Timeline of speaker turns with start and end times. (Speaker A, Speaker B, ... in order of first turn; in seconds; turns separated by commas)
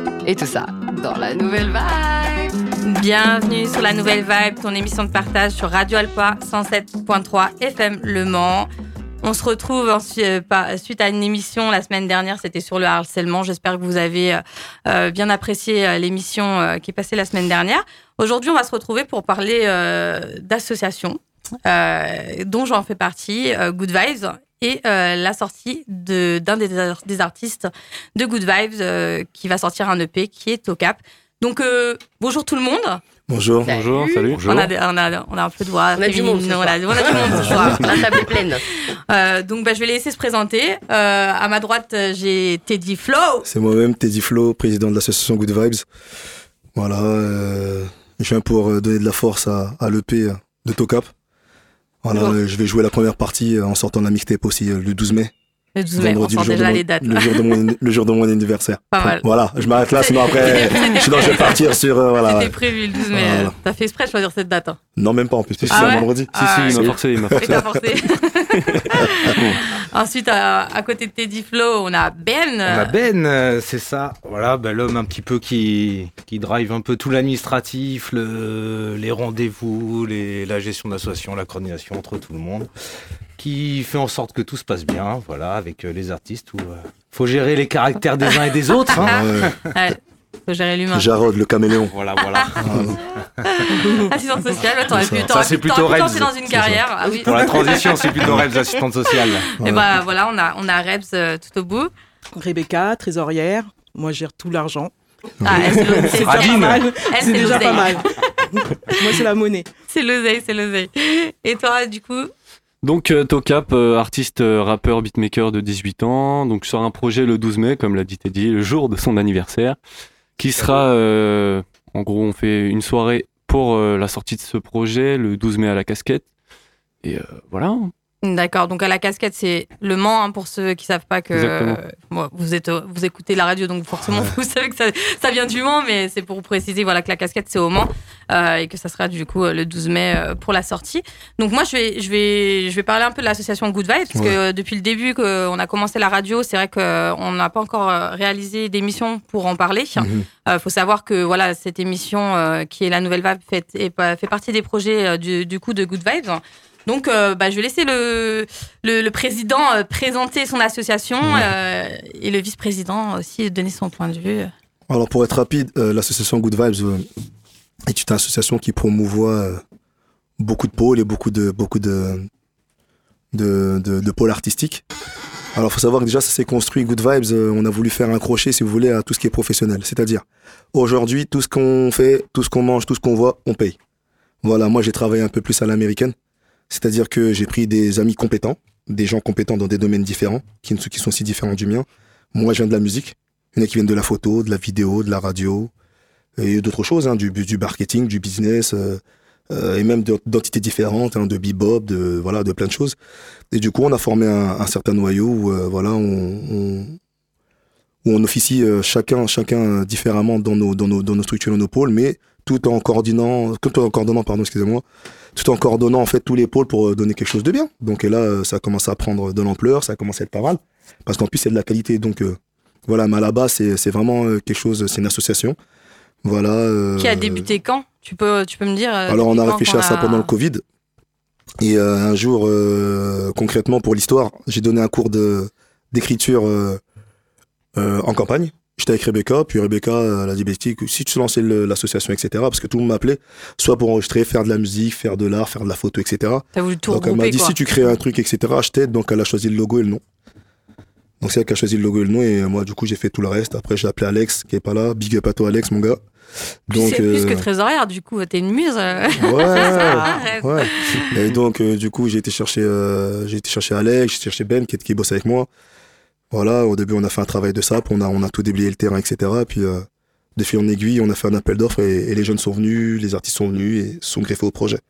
Speaker A: 0.2-2.5, Speaker B: 2.8-8.7, Speaker B: 9.2-33.0, Speaker C: 33.3-33.7, Speaker A: 33.6-34.3, Speaker D: 33.7-34.4, Speaker E: 34.3-34.7, Speaker B: 34.5-38.2, Speaker A: 36.0-38.6, Speaker C: 37.4-37.8, Speaker B: 39.1-43.5, Speaker C: 43.5-45.9, Speaker C: 46.8-51.1, Speaker C: 52.0-55.3, Speaker B: 55.8-57.5, Speaker C: 56.0-63.5, Speaker B: 58.9-59.3, Speaker B: 60.0-61.6, Speaker B: 62.2-64.8, Speaker C: 65.0-67.8, Speaker D: 65.6-67.7, Speaker B: 65.7-72.9, Speaker C: 69.0-69.5, Speaker E: 72.7-82.7, Speaker E: 83.4-89.5, Speaker C: 88.9-89.6, Speaker B: 89.7-91.1, Speaker C: 90.9-91.9, Speaker E: 91.9-93.2, Speaker C: 92.6-93.0, Speaker B: 93.5-98.4, Speaker C: 94.9-95.3, Speaker E: 95.2-96.5, Speaker C: 96.5-96.8, Speaker E: 97.1-99.5, Speaker C: 99.6-99.8, Speaker B: 99.6-101.9, Speaker F: 102.3-104.9, Speaker C: 105.4-106.2, Speaker B: 105.4-108.0, Speaker F: 105.5-109.7, Speaker E: 106.2-106.9, Speaker E: 107.5-107.8, Speaker B: 109.9-112.3, Speaker D: 112.8-119.8, Speaker D: 120.4-126.3, Speaker E: 120.5-120.9, Speaker D: 127.0-127.9, Speaker B: 128.2-164.5, Speaker D: 131.3-131.8, Speaker C: 134.0-134.3, Speaker C: 150.0-150.3, Speaker C: 161.2-161.5, Speaker C: 164.9-167.1, Speaker C: 167.9-169.6, Speaker C: 170.4-172.3, Speaker C: 173.3-174.8, Speaker C: 175.5-183.8, Speaker C: 184.4-186.1, Speaker C: 186.7-195.7, Speaker C: 196.4-203.0, Speaker C: 203.5-207.0, Speaker C: 208.0-214.8, Speaker C: 215.3-225.6, Speaker C: 226.2-227.5, Speaker B: 227.0-230.3, Speaker C: 229.1-230.6, Speaker C: 231.6-236.8, Speaker C: 237.8-250.0, Speaker B: 246.5-247.6, Speaker C: 251.2-256.0, Speaker C: 256.7-257.5, Speaker B: 256.7-261.1, Speaker C: 259.2-265.5, Speaker F: 259.5-260.0, Speaker C: 266.3-274.8